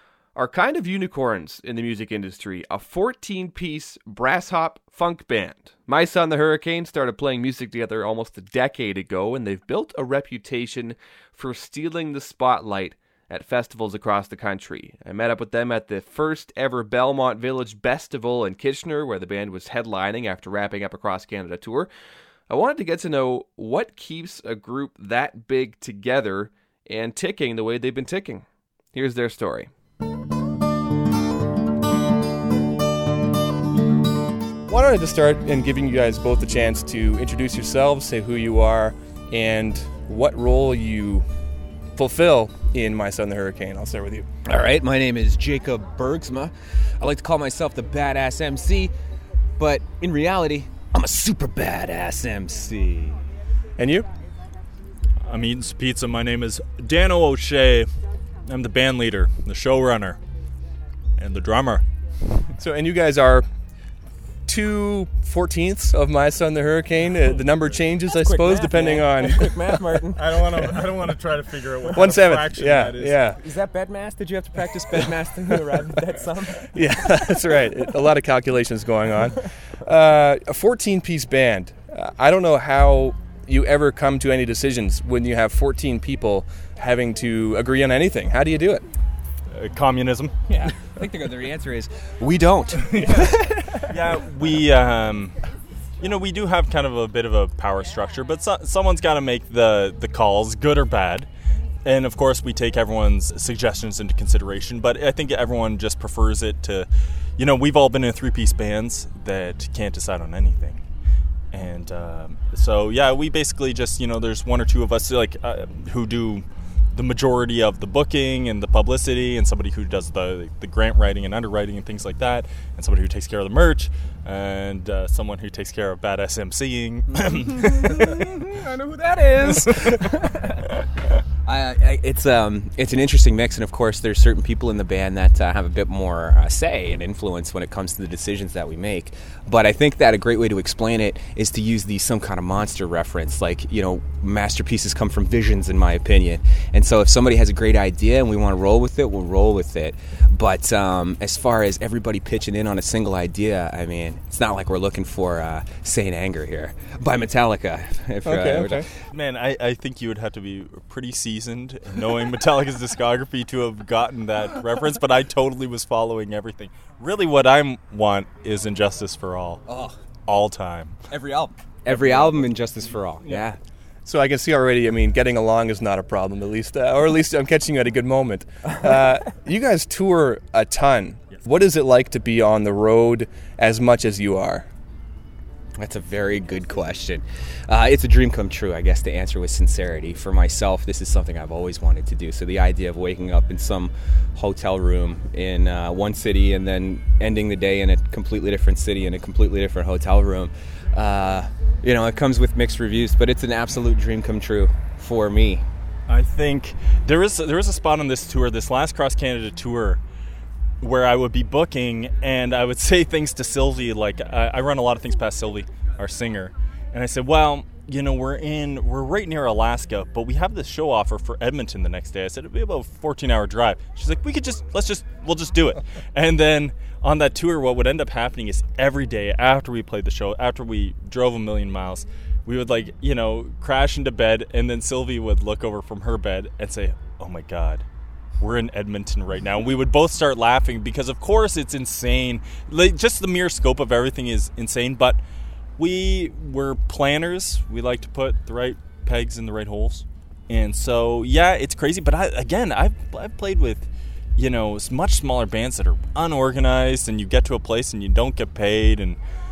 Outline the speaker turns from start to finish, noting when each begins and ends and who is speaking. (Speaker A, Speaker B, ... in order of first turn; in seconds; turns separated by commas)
Speaker A: 0.4-21.9, Speaker A: 22.5-29.7, Speaker A: 34.7-41.2, Speaker A: 42.0-44.3, Speaker B: 44.4-48.9, Speaker B: 49.6-53.2, Speaker A: 53.8-54.1, Speaker C: 55.2-57.9, Speaker C: 58.5-60.2, Speaker C: 61.2-61.9, Speaker A: 62.6-63.5, Speaker A: 64.5-69.6, Speaker B: 68.1-70.7, Speaker C: 70.1-73.3, Speaker A: 71.9-73.4, Speaker B: 73.4-77.6, Speaker A: 75.5-75.7, Speaker A: 76.7-88.8, Speaker C: 89.5-90.4, Speaker B: 90.5-93.9, Speaker C: 93.1-95.4, Speaker C: 96.0-101.3, Speaker C: 101.8-110.8, Speaker C: 111.5-128.3, Speaker B: 127.1-130.8, Speaker B: 131.4-158.9, Speaker A: 158.2-158.9, Speaker C: 159.0-169.6, Speaker B: 169.7-170.0, Speaker C: 170.3-171.0, Speaker B: 171.1-173.6, Speaker C: 171.9-172.3, Speaker A: 174.1-184.7, Speaker B: 185.8-205.7, Speaker C: 206.1-210.0, Speaker C: 210.8-237.9, Speaker C: 238.4-245.2, Speaker C: 245.8-259.2